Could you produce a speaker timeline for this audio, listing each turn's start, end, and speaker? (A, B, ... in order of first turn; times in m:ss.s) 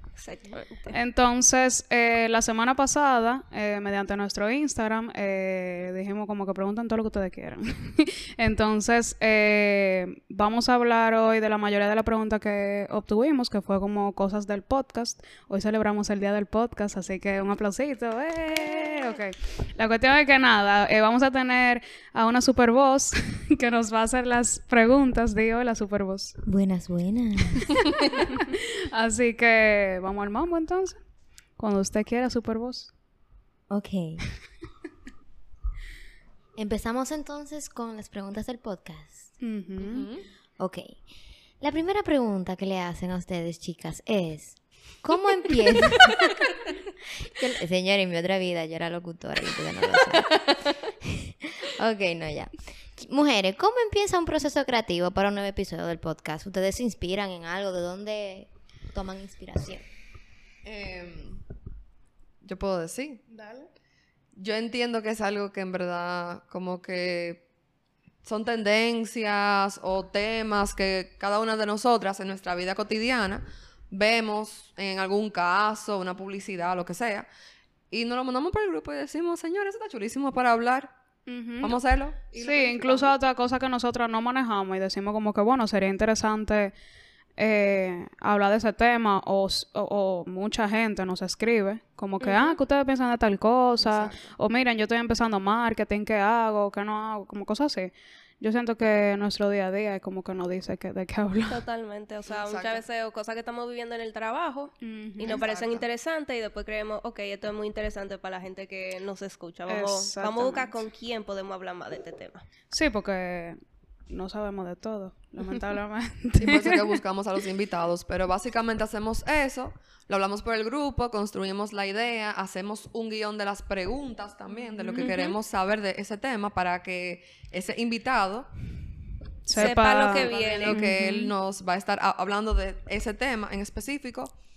0:00.2-0:01.0 A
0:00.9-0:26.4 B
0:26.4-0:27.7 C
0:28.2-0:31.0 B
0:31.6-0:32.9 B
0:33.7-0:34.2 C
0:36.6-0:39.3 C
0:39.4-0:40.1 B
0:39.8-0:40.2 D
0:40.6-0:41.0 C
0:41.6-0:46.3 C
0:47.2-0:59.8 C
1:00.6-1:01.4 D
1:02.4-1:03.2 D
1:03.3-1:03.7 B
1:04.4-1:07.4 D
1:08.2-1:17.3 D
1:17.9-1:20.9 D
1:21.3-1:21.8 B
1:21.6-1:23.2 D
1:22.4-1:26.8 B
1:27.4-1:41.6 B
1:32.2-1:32.6 A
1:33.8-1:34.3 D
1:41.5-1:52.4 A
1:42.3-1:42.8 D
1:44.8-1:45.4 B
1:45.2-1:45.9 D
1:49.7-1:50.8 B
1:52.7-1:57.0 B
1:56.4-2:08.5 D
2:05.0-2:05.2 A
2:05.0-2:05.3 B
2:09.4-2:11.3 B
2:09.5-2:10.8 A
2:09.6-2:14.3 D